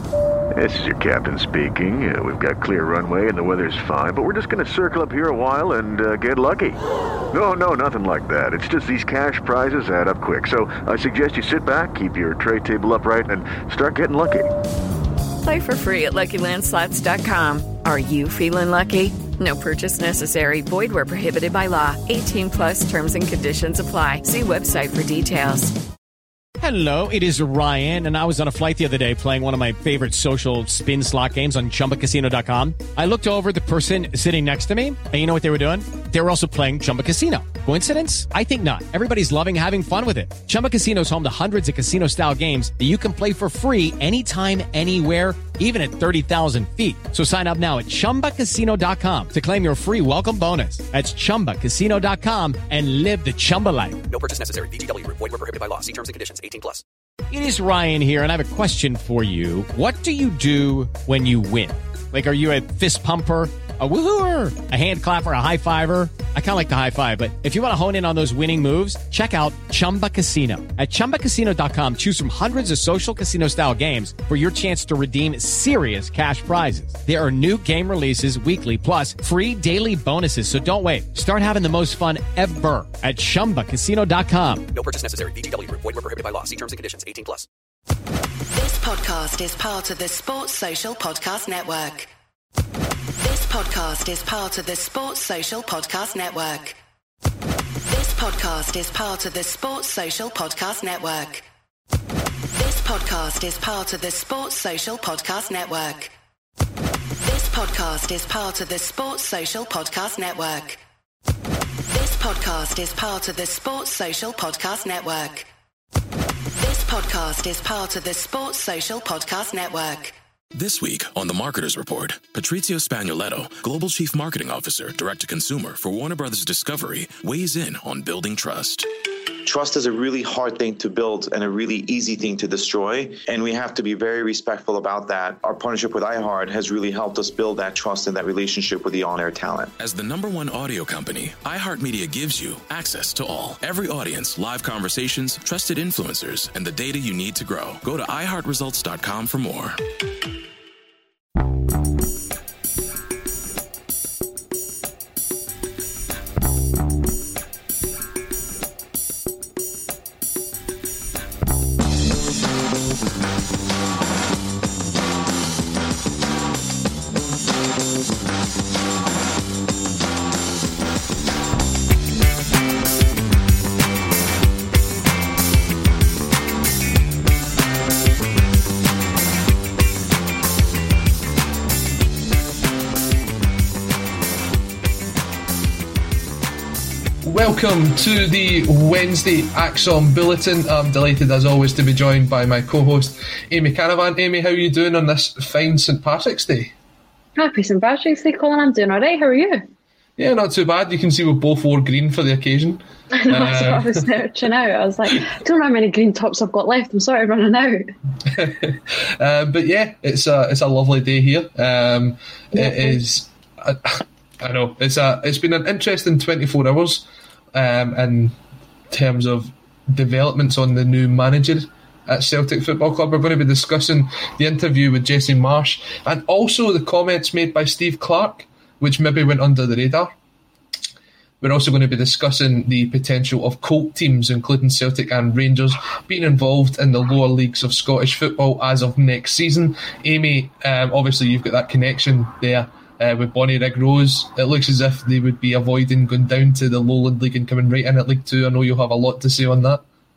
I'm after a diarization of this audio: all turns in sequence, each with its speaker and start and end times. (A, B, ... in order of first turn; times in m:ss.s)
0:00.6-0:06.8 A
0:07.3-0:14.5 A
0:15.4-0:25.8 B
0:26.6-0:54.0 C
0:54.1-0:56.8 D
0:57.3-1:24.7 C
1:24.7-1:27.5 D
1:28.5-1:32.1 E
1:33.2-1:36.8 E
1:37.9-1:41.4 E
1:42.6-1:46.1 E
1:47.2-1:50.8 E
1:51.9-1:55.5 E
1:56.6-2:00.2 E
2:00.5-2:08.9 F
2:09.4-2:19.7 G
2:19.8-2:29.8 F
3:07.2-3:16.7 H
3:17.4-3:19.6 I
3:20.2-3:24.0 H
3:23.1-3:27.9 I
3:28.3-3:38.4 H
3:32.6-3:33.0 I
3:38.9-3:50.2 H
3:51.4-4:09.8 H